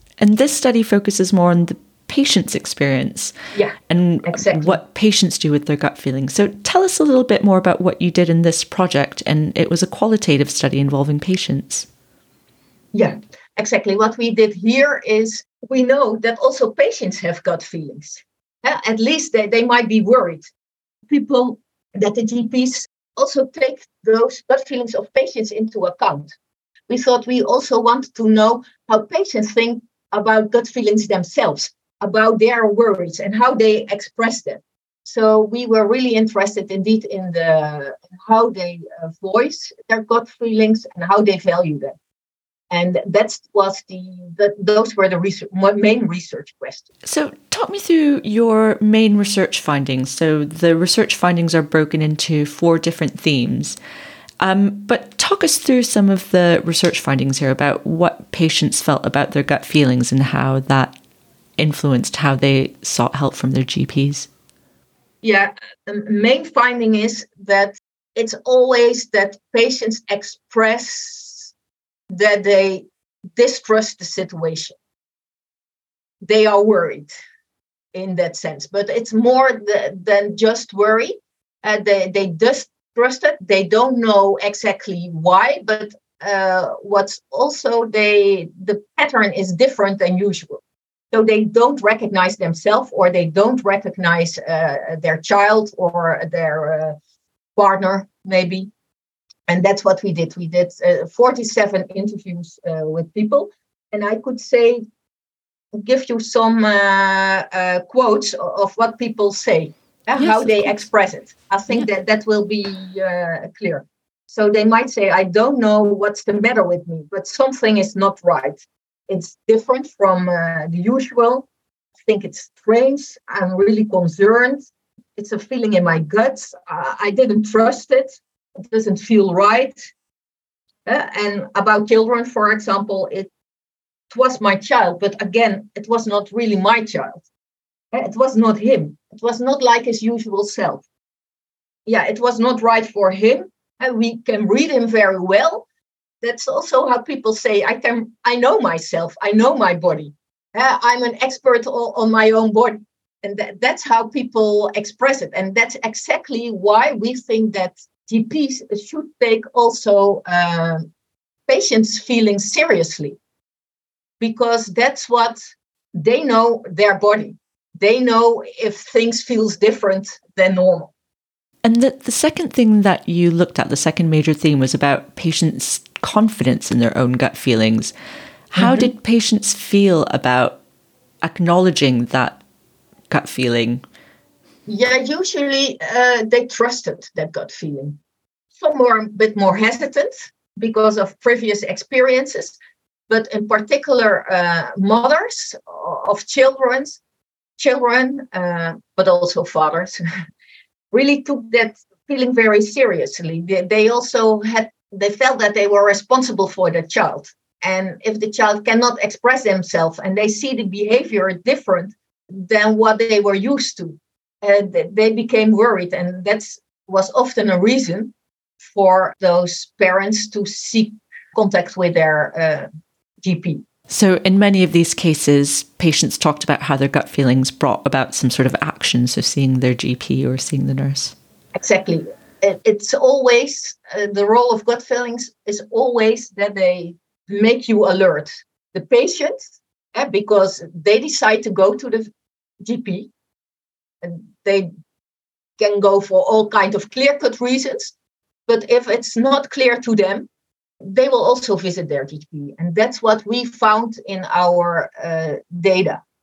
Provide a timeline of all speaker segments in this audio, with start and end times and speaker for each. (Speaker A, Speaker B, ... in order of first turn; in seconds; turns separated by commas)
Speaker A: 0.2-3.3, Speaker A: 3.9-11.9, Speaker B: 4.3-4.8, Speaker B: 12.9-20.5, Speaker B: 21.1-26.3, Speaker B: 26.9-42.0, Speaker B: 42.7-46.9, Speaker A: 47.0-53.8, Speaker A: 54.4-61.0, Speaker A: 61.6-64.3, Speaker B: 65.2-71.5, Speaker B: 72.1-72.8, Speaker B: 73.4-74.8, Speaker B: 76.2-77.1, Speaker B: 77.9-90.6, Speaker B: 91.1-97.0, Speaker B: 97.6-98.7, Speaker B: 99.5-104.8, Speaker B: 105.8-121.5, Speaker A: 110.2-110.9, Speaker B: 122.0-129.9, Speaker B: 130.9-133.3, Speaker B: 134.1-137.2, Speaker B: 137.9-140.8, Speaker B: 141.9-145.7, Speaker B: 146.2-160.9, Speaker B: 161.5-163.2, Speaker B: 164.2-165.4, Speaker B: 165.9-170.9, Speaker A: 171.6-177.9, Speaker A: 178.5-180.6, Speaker B: 178.6-178.9, Speaker A: 181.2-182.4, Speaker A: 183.1-183.8, Speaker B: 184.7-188.0, Speaker B: 188.6-192.6, Speaker B: 193.1-197.0, Speaker B: 197.6-200.0, Speaker B: 200.9-222.7, Speaker B: 223.2-223.6, Speaker A: 223.9-231.2, Speaker B: 231.6-242.1, Speaker B: 242.6-243.1, Speaker B: 244.0-244.7, Speaker B: 245.6-247.9, Speaker B: 248.5-250.3, Speaker B: 250.8-256.0